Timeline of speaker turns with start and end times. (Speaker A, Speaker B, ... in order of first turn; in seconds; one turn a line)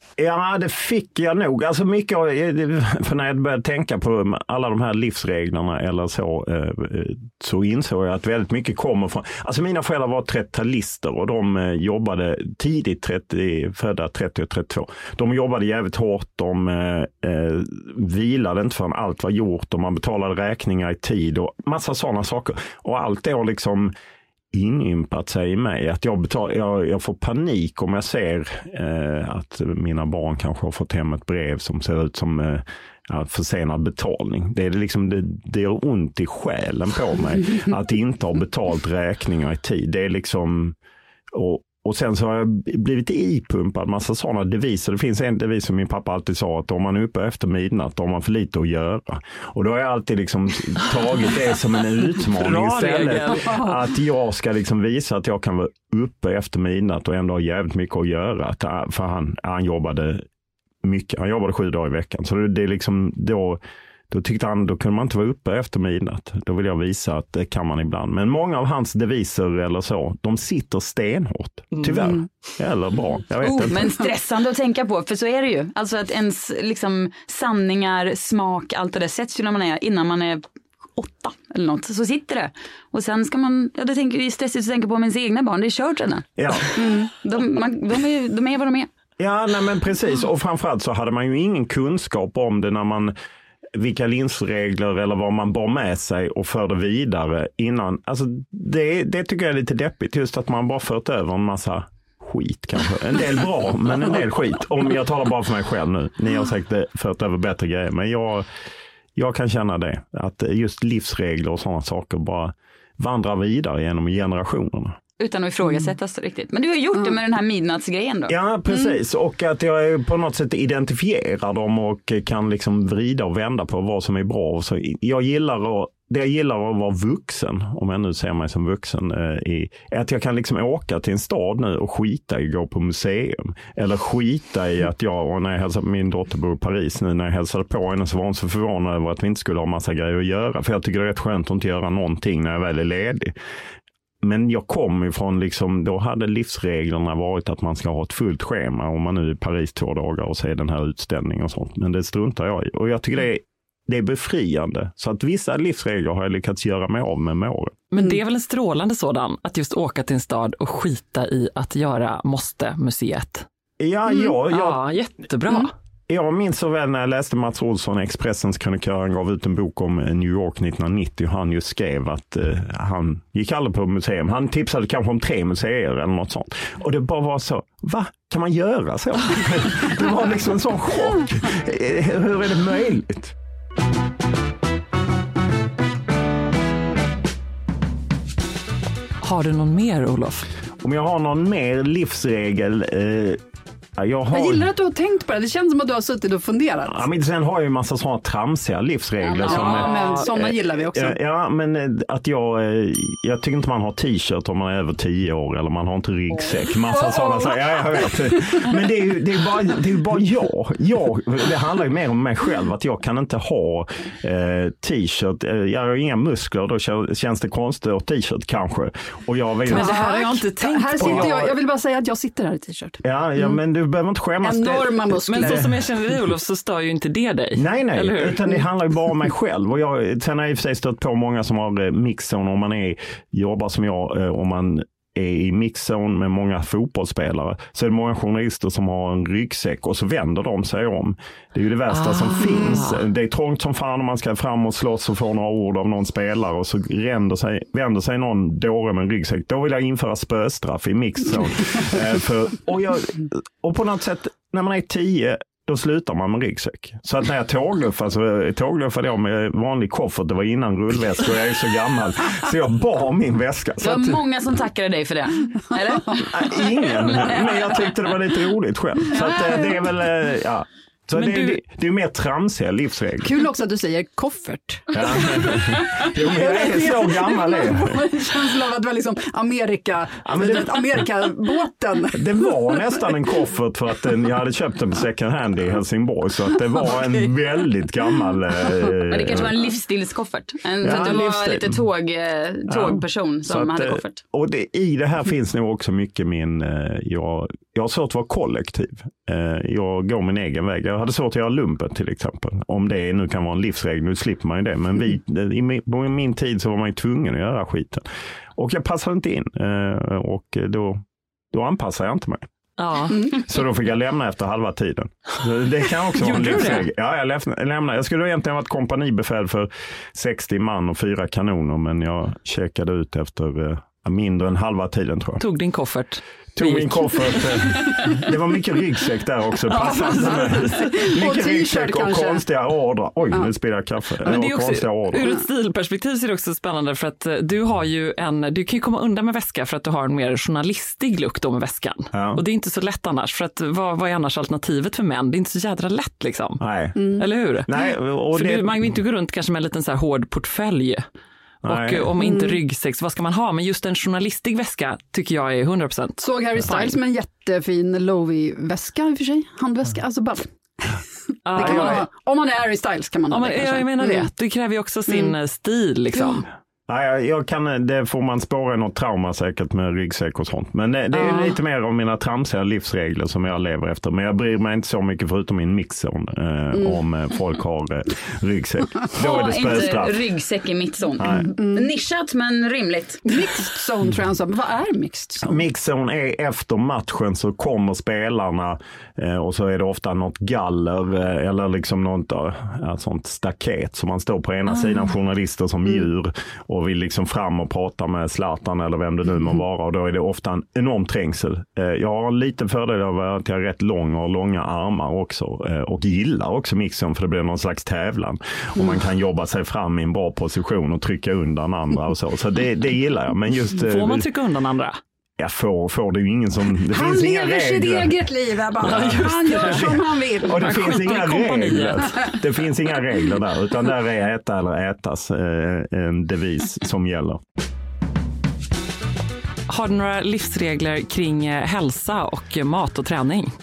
Speaker A: 0.2-23.9
Speaker A: 24.5-40.8
Speaker A: 41.3-60.2
Speaker B: 52.3-53.8
Speaker A: 60.8-63.6
Speaker A: 64.1-73.9
Speaker B: 71.7-72.1
Speaker C: 73.4-80.4
Speaker C: 81.0-88.9
Speaker A: 86.4-86.7
Speaker A: 89.2-93.1
Speaker A: 93.7-108.5
Speaker A: 109.2-115.0
Speaker C: 115.2-118.3
Speaker D: 115.6-115.9
Speaker A: 118.3-143.3
Speaker A: 144.2-157.8
Speaker B: 157.9-163.4
Speaker A: 163.8-164.8
Speaker B: 164.4-165.7
Speaker A: 166.1-183.3
Speaker B: 189.2-190.4
Speaker A: 190.8-193.4
Speaker A: 194.0-194.7
Speaker D: 194.3-197.0
Speaker A: 196.9-220.0
Speaker D: 199.3-201.2
Speaker B: 199.4-200.3
Speaker D: 207.0-207.5
Speaker D: 219.7-223.6
Speaker B: 219.7-221.4
Speaker A: 221.0-221.5
Speaker A: 223.0-225.7
Speaker D: 224.4-225.7
Speaker B: 225.3-228.4
Speaker A: 227.5-264.2
Speaker B: 241.9-243.0
Speaker D: 242.4-242.8
Speaker C: 263.8-266.3
Speaker A: 266.1-273.3
Speaker B: 271.1-271.6
Speaker D: 273.2-282.5
Speaker A: 274.9-278.0
Speaker A: 280.2-281.1
Speaker A: 282.1-289.5
Speaker C: 288.9-294.2
Speaker A: 290.8-291.8
Speaker A: 292.7-308.0
Speaker A: 308.6-312.4
Speaker B: 312.8-313.3
Speaker A: 313.3-325.4
Speaker B: 316.2-316.9
Speaker B: 325.4-327.5
Speaker A: 326.6-335.2
Speaker B: 329.7-330.8
Speaker D: 330.1-332.4
Speaker B: 334.2-346.6
Speaker A: 342.1-342.4
Speaker A: 346.6-346.9
Speaker D: 346.9-347.2
Speaker B: 347.1-347.7
Speaker A: 347.6-348.7
Speaker B: 348.3-351.0
Speaker A: 351.6-352.1
Speaker B: 351.6-357.0
Speaker D: 352.2-352.6
Speaker D: 356.2-364.3
Speaker B: 361.4-362.1
Speaker A: 361.6-362.0
Speaker B: 363.3-366.4
Speaker D: 365.1-365.3
Speaker A: 366.9-380.2
Speaker B: 371.1-371.5
Speaker D: 376.7-377.0
Speaker C: 379.1-383.2
Speaker A: 381.2-381.5
Speaker D: 381.3-381.9
Speaker D: 383.3-385.6
Speaker A: 385.4-414.3
Speaker B: 413.8-415.0
Speaker A: 415.4-418.2
Speaker D: 416.9-421.2
Speaker B: 418.8-422.2
Speaker A: 418.8-427.4
Speaker B: 429.7-433.5